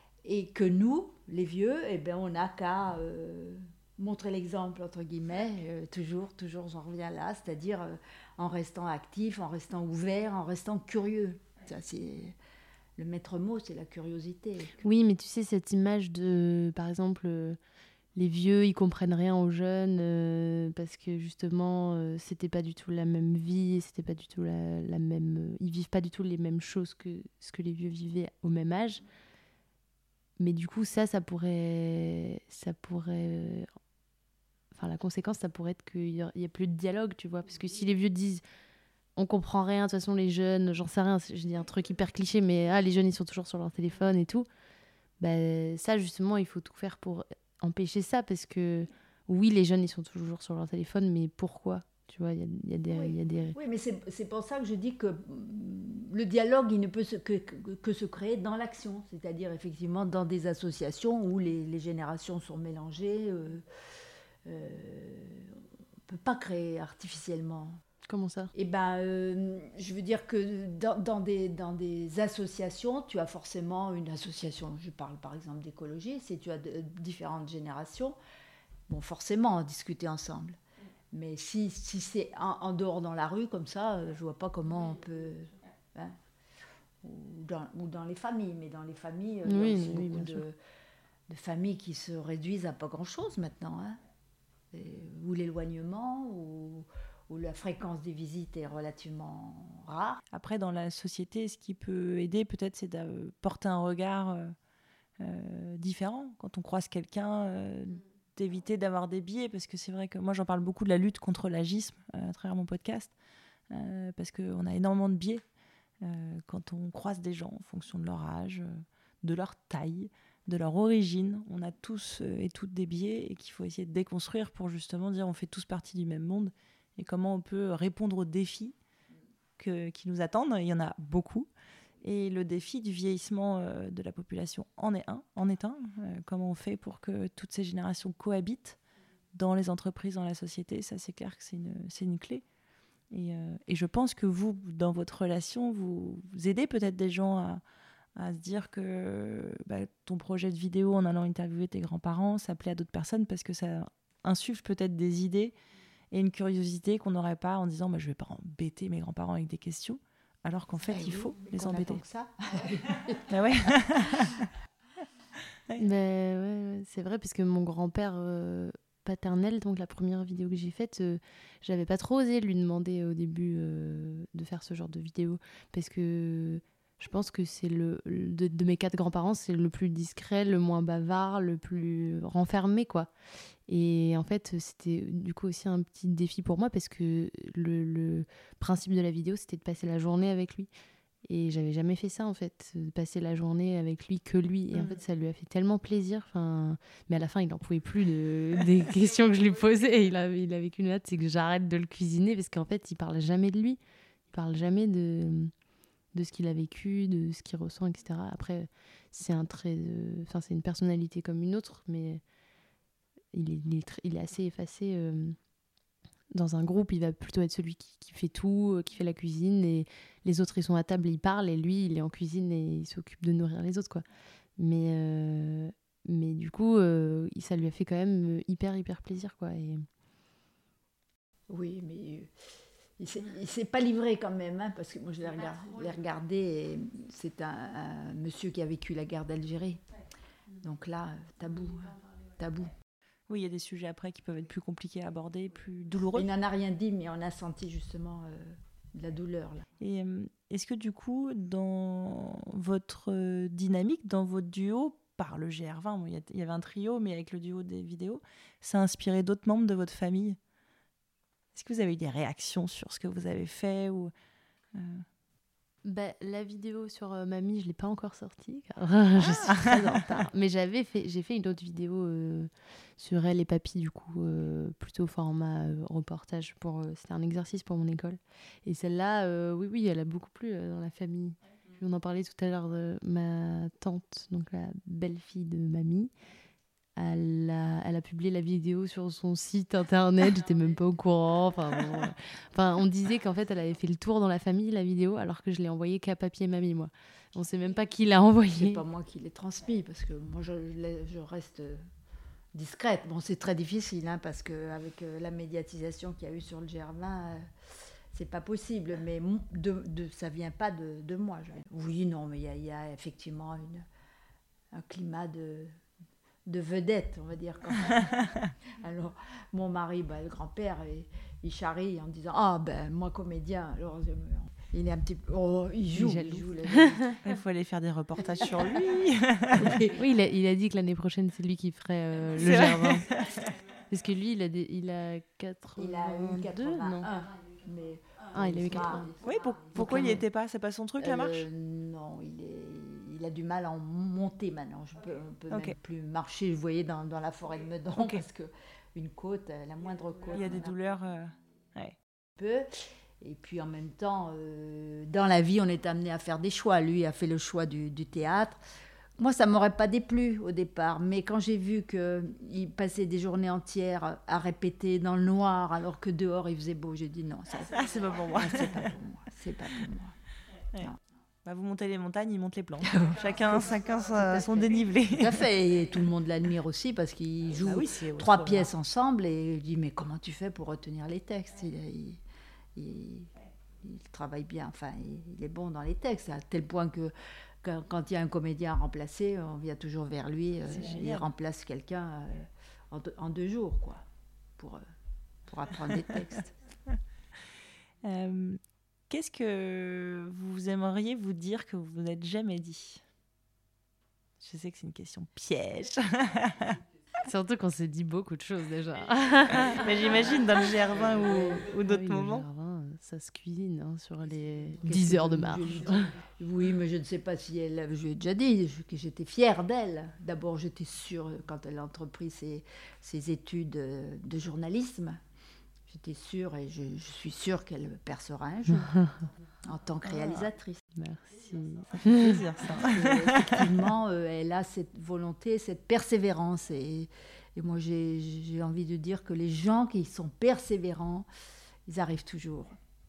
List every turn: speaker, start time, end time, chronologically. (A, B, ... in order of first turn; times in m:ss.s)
0:00.2-0:12.4 A
0:13.0-0:14.7 A
0:14.8-0:17.6 B
0:18.2-0:29.0 B
0:30.4-0:33.7 B
0:34.7-0:38.4 B
0:39.2-0:44.5 B
0:45.2-0:53.6 B
0:52.9-1:03.6 A
1:04.4-1:07.8 A
1:08.0-1:08.5 B
1:08.5-1:18.2 A
1:18.9-1:20.6 A
1:21.1-1:26.2 A
1:27.0-1:30.6 A
1:29.4-1:30.4 B
1:31.3-1:34.0 A
1:34.7-1:40.2 A
1:40.3-1:44.5 C
1:45.2-1:53.1 C
1:53.7-1:55.4 C
1:56.0-2:08.8 C
2:09.6-2:11.5 C
2:12.0-2:18.8 C
2:19.3-2:22.4 C
2:23.1-2:27.6 C
2:28.2-2:35.5 C
2:36.1-2:42.0 C
2:40.9-2:43.3 A
2:43.3-2:44.5 C
2:45.8-3:03.1 B
3:03.7-3:10.7 B
3:11.3-3:23.8 B
3:24.3-3:25.5 B
3:26.1-3:32.2 B
3:33.3-3:35.4 B
3:36.3-3:44.0 B
3:44.6-3:49.9 B
3:51.5-3:52.3 A
3:53.0-3:59.8 A
4:00.6-4:02.7 A
4:03.3-4:06.3 C
4:06.1-4:09.7 A
4:09.8-4:20.4 C
4:21.5-4:24.1 C
4:24.7-4:25.0 C
4:25.8-4:46.1 B
4:29.4-4:29.9 C
4:47.0-4:58.8 B
4:58.5-5:01.8 A
5:02.5-5:07.5 A
5:08.1-5:13.8 A
5:14.7-5:15.7 A
5:16.4-5:27.2 A
5:25.9-5:27.2 B
5:27.2-5:29.8 C
5:29.5-5:30.0 A
5:29.9-5:33.1 B
5:32.4-5:33.3 C
5:33.9-5:37.1 B
5:35.8-5:40.2 A
5:38.3-5:39.1 B
5:39.2-5:41.4 C
5:39.7-5:40.2 B
5:41.0-5:50.7 A
5:50.3-5:51.9 C
5:52.4-5:52.7 A
5:53.2-5:58.6 A
5:59.2-6:10.2 A
6:07.7-6:08.9 C
6:11.4-6:15.5 C
6:12.8-6:22.2 A
6:17.6-6:18.7 C
6:22.7-6:34.0 A
6:30.7-6:31.3 C
6:35.5-6:36.5 A
6:38.0-6:38.6 C
6:39.1-6:43.0 C
6:44.4-6:46.8 C
6:47.2-6:49.9 B
6:49.6-6:52.4 C
6:50.5-6:56.1 B
6:51.1-6:51.6 A
6:54.8-7:05.2 A
7:05.9-7:08.9 A
7:08.7-7:09.2 B
7:09.6-7:10.8 A
7:10.1-7:10.4 C
7:11.0-7:12.4 B
7:11.9-7:13.7 C
7:12.8-7:21.3 A
7:21.8-7:22.8 A